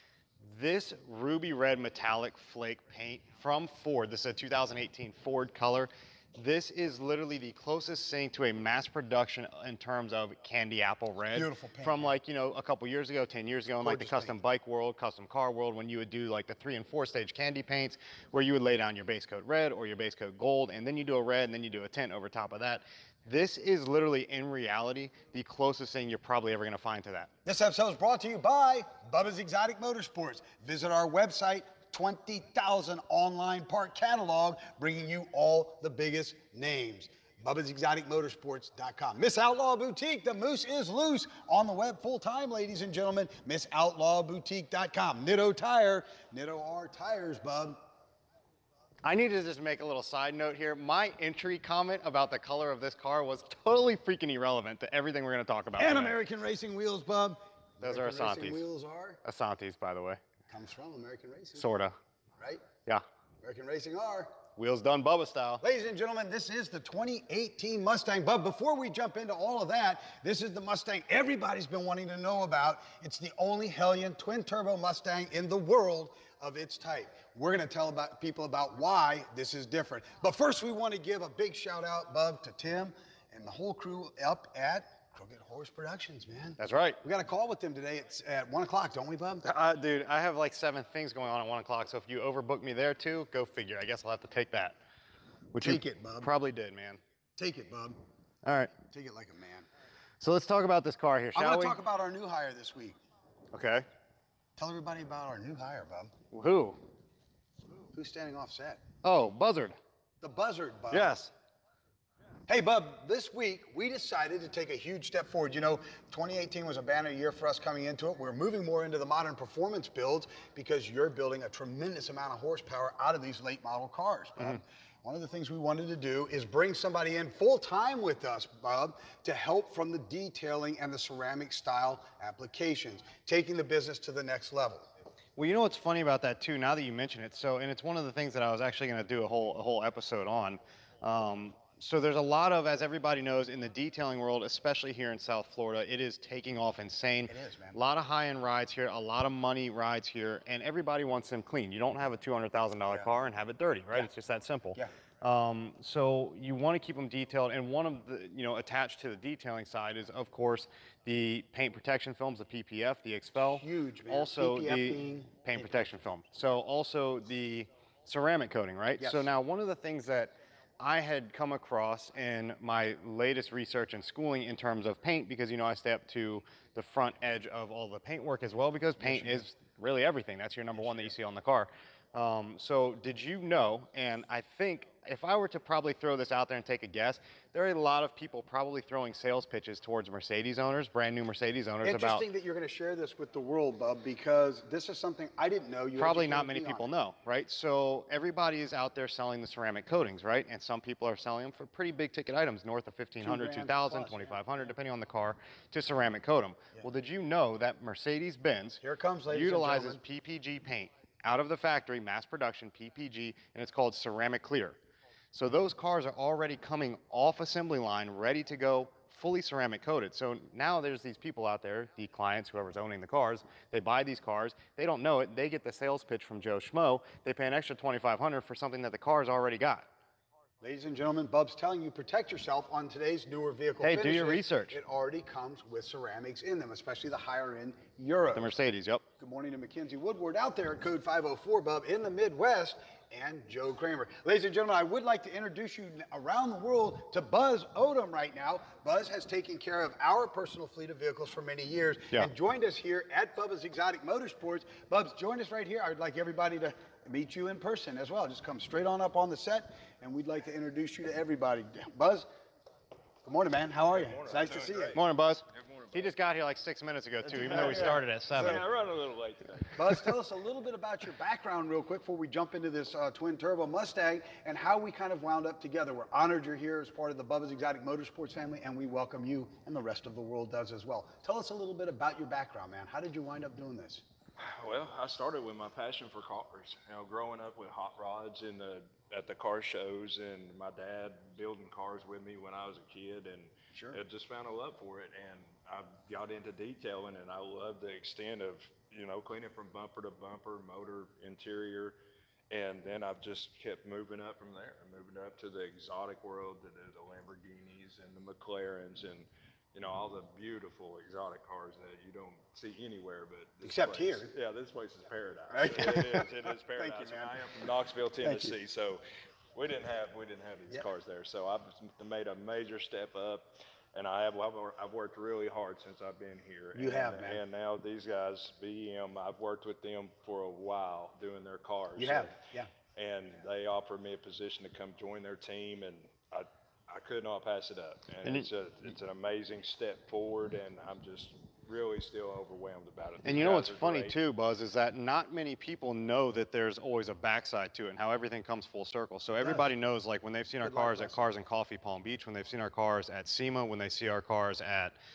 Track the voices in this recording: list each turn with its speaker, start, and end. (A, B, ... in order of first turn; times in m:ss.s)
0:00.4-0:27.3 A
0:11.3-0:12.1 B
0:13.8-0:14.3 B
0:27.4-0:47.8 B
0:49.0-0:56.2 A
0:55.8-0:59.2 B
0:57.8-0:58.6 A
0:59.2-1:00.2 A
1:00.5-1:01.6 B
1:01.6-1:02.0 A
1:03.4-1:04.4 B
1:04.6-1:05.6 A
1:05.6-1:29.4 B
1:26.6-1:27.0 A
1:29.4-1:34.8 A
1:35.5-1:37.0 A
1:35.6-1:36.3 B
1:37.4-1:38.0 B
1:38.4-1:38.7 A
1:38.8-1:39.7 B
1:40.2-1:41.8 A
1:41.3-1:43.0 B
1:43.5-1:43.8 A
1:44.6-1:46.1 B
1:46.3-1:46.8 A
1:47.9-1:48.8 B
1:49.0-1:49.8 A
1:50.2-1:51.1 B
1:50.9-1:51.3 A
1:52.5-2:14.8 B
2:15.4-3:12.2 A
2:27.3-2:27.8 B
2:43.6-2:45.8 B
2:49.0-2:49.3 B
2:59.0-2:59.4 B
3:11.8-3:16.9 B
3:16.0-3:34.8 A
3:23.2-3:24.4 B
3:28.8-3:30.0 B
3:35.3-3:49.9 A
3:50.6-3:58.5 B
3:53.8-3:54.8 A
3:58.3-3:59.0 A
3:59.2-4:22.3 B
4:23.2-4:25.0 B
4:23.9-4:25.0 C
4:24.9-4:28.6 A
4:25.5-4:26.1 C
4:27.4-4:28.6 B
4:27.4-4:30.0 C
4:29.7-4:44.0 B
4:44.4-5:02.0 C
5:02.5-5:19.0 C
5:13.6-5:14.3 B
5:15.5-5:17.7 B
5:18.2-5:18.6 B
5:19.5-5:32.4 C
5:26.7-5:27.4 B
5:32.0-5:32.7 B
5:32.9-5:44.2 C
5:43.2-5:54.9 A
5:49.4-5:49.7 B
5:50.6-5:51.3 B